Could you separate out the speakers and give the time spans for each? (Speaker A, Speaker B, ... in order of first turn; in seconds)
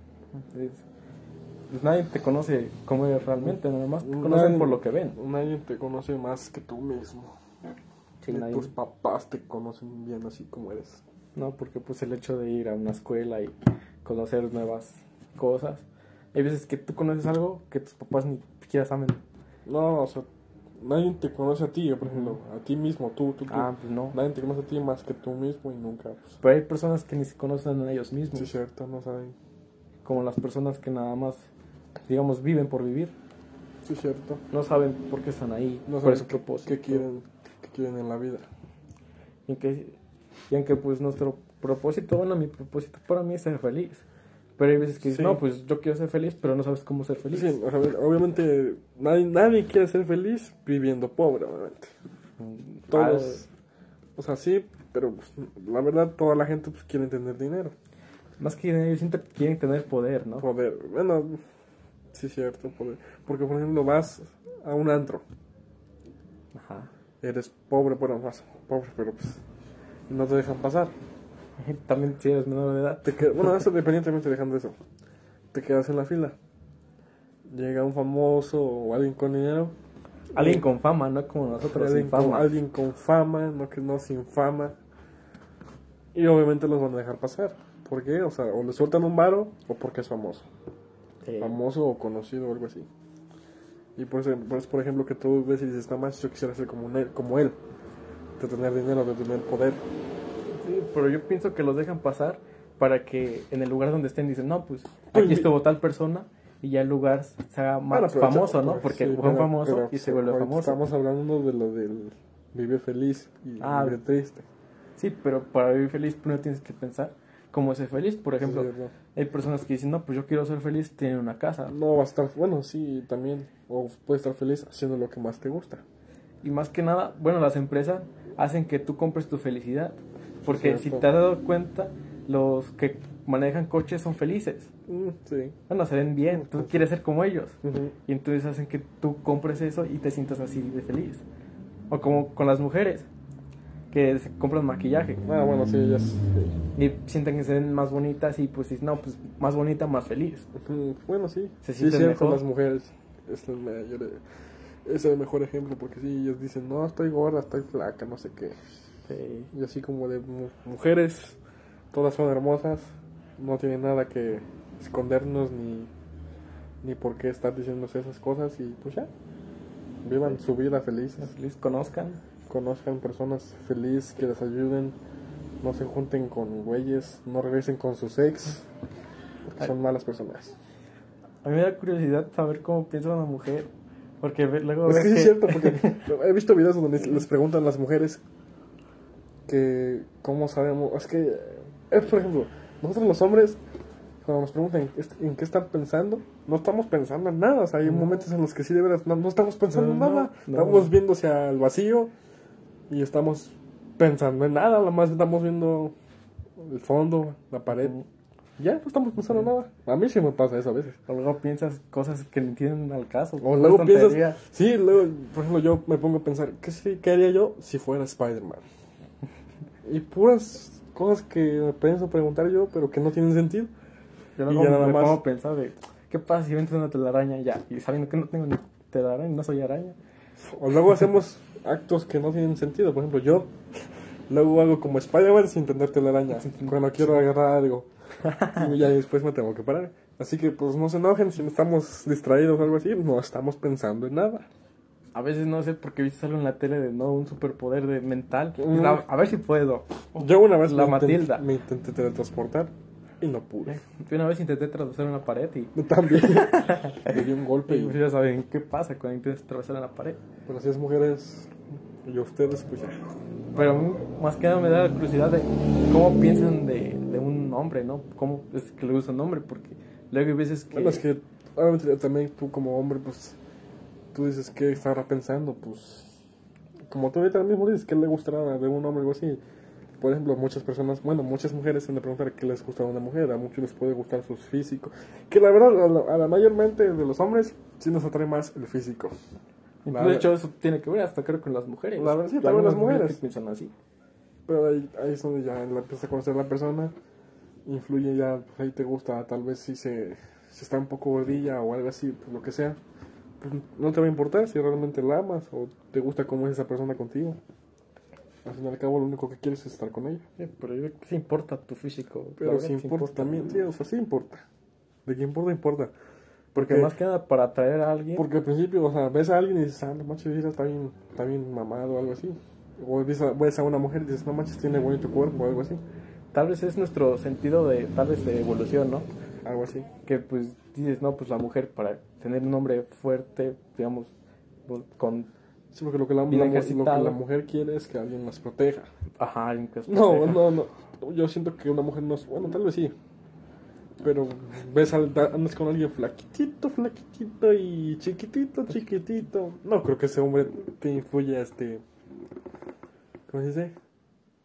Speaker A: 0.3-0.8, 1.7-5.2, 8.2-8.7, 11.3-19.2, 22.1-22.3, 23.5-24.1, 26.4-28.5, 30.0-31.5, 32.1-33.1, 34.5-37.0, 39.5-40.0, 40.5-44.0, 44.6-47.5, 52.4-53.4, 58.4-60.5, 66.5-66.9, 71.6-73.5, 80.3-82.5, 91.2-91.6, 100.5-110.8, 113.6-114.0, 115.0-121.7, 126.4-134.7, 135.7-141.2, 141.9-143.1, 143.9-145.2, 146.8-150.5, 151.6-152.4, 159.1-159.5, 171.2-172.2, 181.4-183.7, 184.2-186.0, 199.7-200.9, 211.1-214.4, 224.4-230.0, 236.4-236.7, 238.2-238.7, 245.1-251.4, 253.7-260.2, 263.5-271.0, 289.8-293.7, 310.4-313.3, 316.5-318.2, 326.3-329.1, 330.1-334.1, 334.7-335.3, 336.3-337.2, 339.2-340.5
Speaker B: 4.0-7.3, 8.3-11.0, 19.6-20.3, 20.8-26.3, 28.3-29.3, 33.9-34.4, 35.9-38.5, 45.0-45.4, 47.3-51.9, 52.9-53.5, 54.1-57.7, 60.4-61.4, 62.1-65.2, 67.2-69.4, 70.1-70.9, 73.0-74.8, 75.5-76.3, 77.5-79.7, 80.3-80.6, 81.7-84.8, 86.1-90.5, 91.4-92.9, 94.0-97.6, 98.4-99.8, 105.1-105.5, 107.9-114.5, 118.4-118.9, 121.7-125.8, 130.4-131.1, 134.9-135.6, 136.3-136.8, 137.6-137.9, 145.2-146.6, 150.5-154.2, 154.8-158.8, 159.5-161.4, 161.9-165.9, 166.8-169.1, 170.0-171.3, 172.5-174.9, 175.6-178.7, 179.5-180.5, 184.8-188.2, 189.5-193.6, 194.2-202.1, 202.9-205.9, 206.6-207.9, 208.6-211.0, 213.4-218.6, 219.8-223.7, 224.5-225.2, 230.4-233.5, 234.3-237.9, 238.5-244.5, 248.6-249.1, 250.2-253.8, 255.7-258.0, 260.4-261.5, 262.0-263.0, 270.7-273.4, 274.1-276.2, 276.9-279.4, 280.0-289.2, 289.9-290.3, 292.0-293.2, 294.5-296.9, 297.6-302.8, 303.4-307.4, 308.4-310.2, 312.4-314.4, 315.1-315.9, 316.5-316.9, 318.1-325.8, 329.4-329.9, 335.7-338.9, 339.9-342.9, 344.0-351.8, 353.3-353.7